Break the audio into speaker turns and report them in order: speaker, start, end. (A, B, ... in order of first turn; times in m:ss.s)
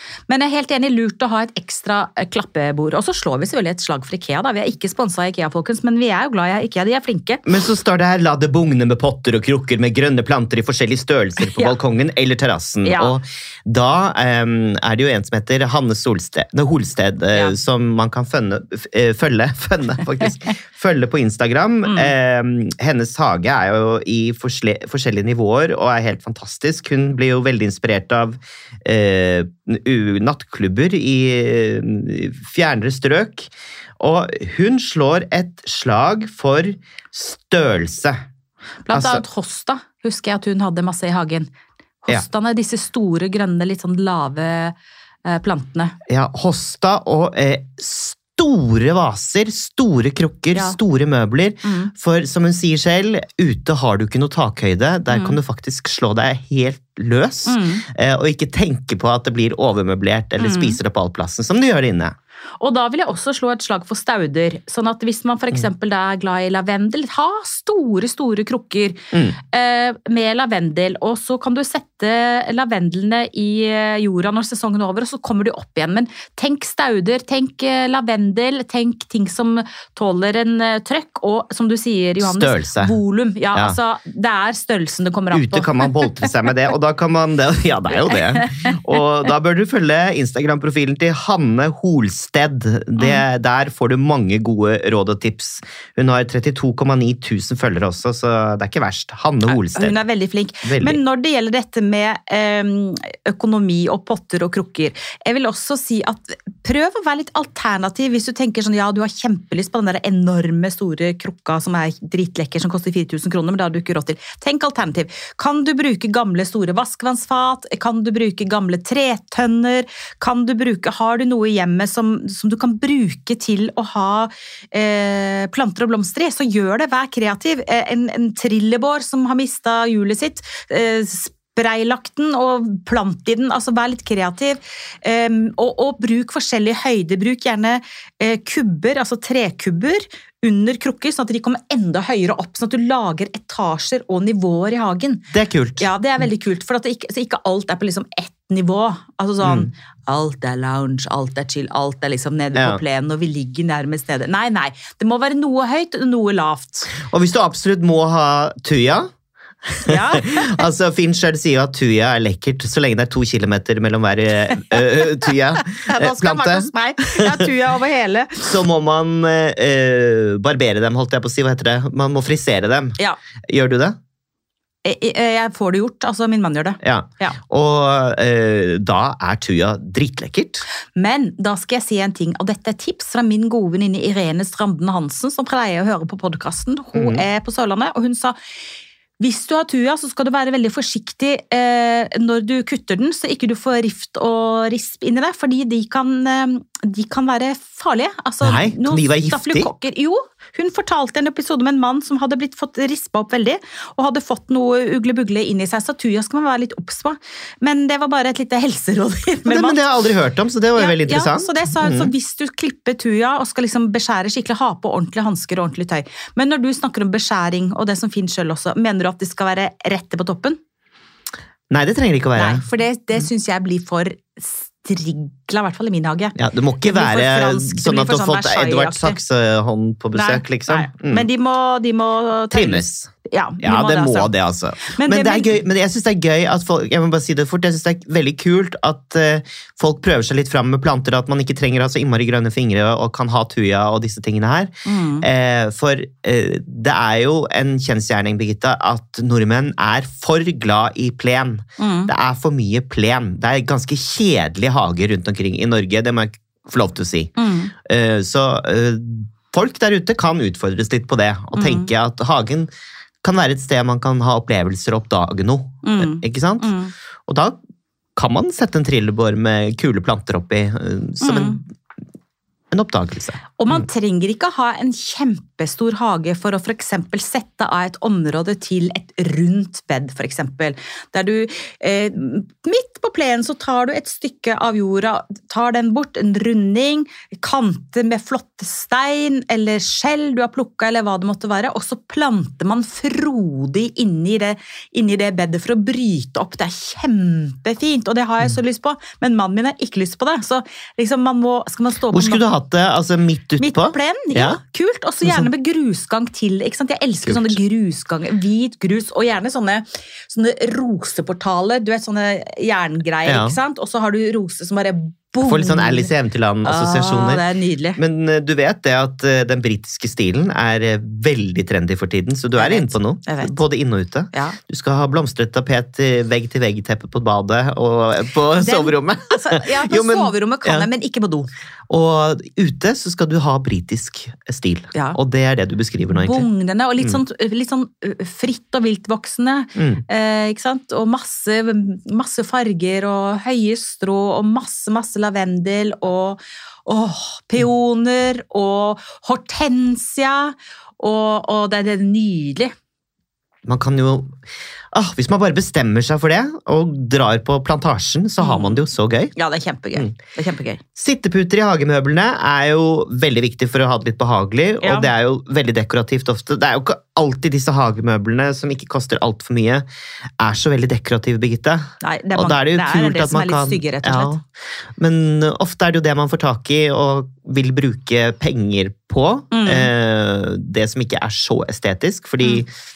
0:00.3-0:07.4 A
0:07.5-0:38.2 B
0:11.4-0:11.7 A
0:12.8-0:13.2 A
0:21.8-0:22.1 A
0:38.9-0:41.5 A
0:38.9-0:39.2 B
0:42.0-0:45.9 A
0:46.1-1:02.2 B
0:51.6-0:51.9 A
0:55.1-0:55.4 A
0:57.5-0:57.9 A
1:00.4-1:00.8 A
1:02.6-1:26.1 A
1:09.1-1:09.4 B
1:22.2-1:23.0 B
1:25.3-1:40.0 B
1:28.4-1:28.8 A
1:33.0-1:33.2 A
1:39.5-2:25.3 A
1:40.6-1:41.0 B
2:25.3-2:25.9 B
2:25.8-2:37.0 A
2:29.4-2:29.7 B
2:32.5-2:32.8 B
2:37.0-2:39.1 B
2:39.7-2:47.4 B
2:39.8-2:40.6 A
2:45.7-2:48.6 A
2:48.4-2:53.0 B
2:53.5-2:54.0 B
2:54.8-2:57.4 A
2:56.8-3:00.6 B
3:01.0-3:08.4 A
3:07.0-3:07.2 B
3:09.2-3:29.8 A
3:18.4-3:19.7 B
3:29.5-3:32.1 B
3:30.8-3:40.6 A
3:41.7-3:42.6 B
3:42.4-3:49.2 A
3:46.4-3:51.3 B
3:50.2-3:54.3 A
3:52.5-4:17.3 B
3:54.8-3:55.6 A
4:04.8-4:05.3 A
4:11.8-4:12.1 A
4:17.4-4:17.7 A
4:17.9-4:22.7 B
4:21.5-4:21.9 A
4:23.2-4:26.8 B
4:25.8-4:26.9 A
4:27.3-4:27.6 B
4:28.2-4:31.6 B
4:31.2-4:31.6 A
4:32.7-4:33.4 B
4:33.6-5:02.5 A
5:02.1-5:04.6 B
5:03.6-5:16.1 A
5:05.2-5:05.5 B
5:07.2-5:07.6 B
5:13.2-5:13.6 B
5:15.5-5:17.4 B
5:16.6-5:18.0 A
5:18.0-5:30.9 B
5:22.6-5:23.6 A
5:24.3-5:24.6 A
5:28.6-5:31.5 A
5:31.9-5:36.5 B
5:34.9-5:35.2 A
5:36.1-5:52.7 A
5:39.8-5:40.0 B
5:53.6-5:54.4 B
5:54.9-5:59.3 B
5:58.4-5:58.8 A
5:59.4-6:00.8 A
6:01.0-6:09.9 B
6:04.8-6:05.1 A
6:10.4-6:14.4 B
6:12.0-6:14.4 A
6:15.0-6:22.7 B
6:19.5-6:19.9 A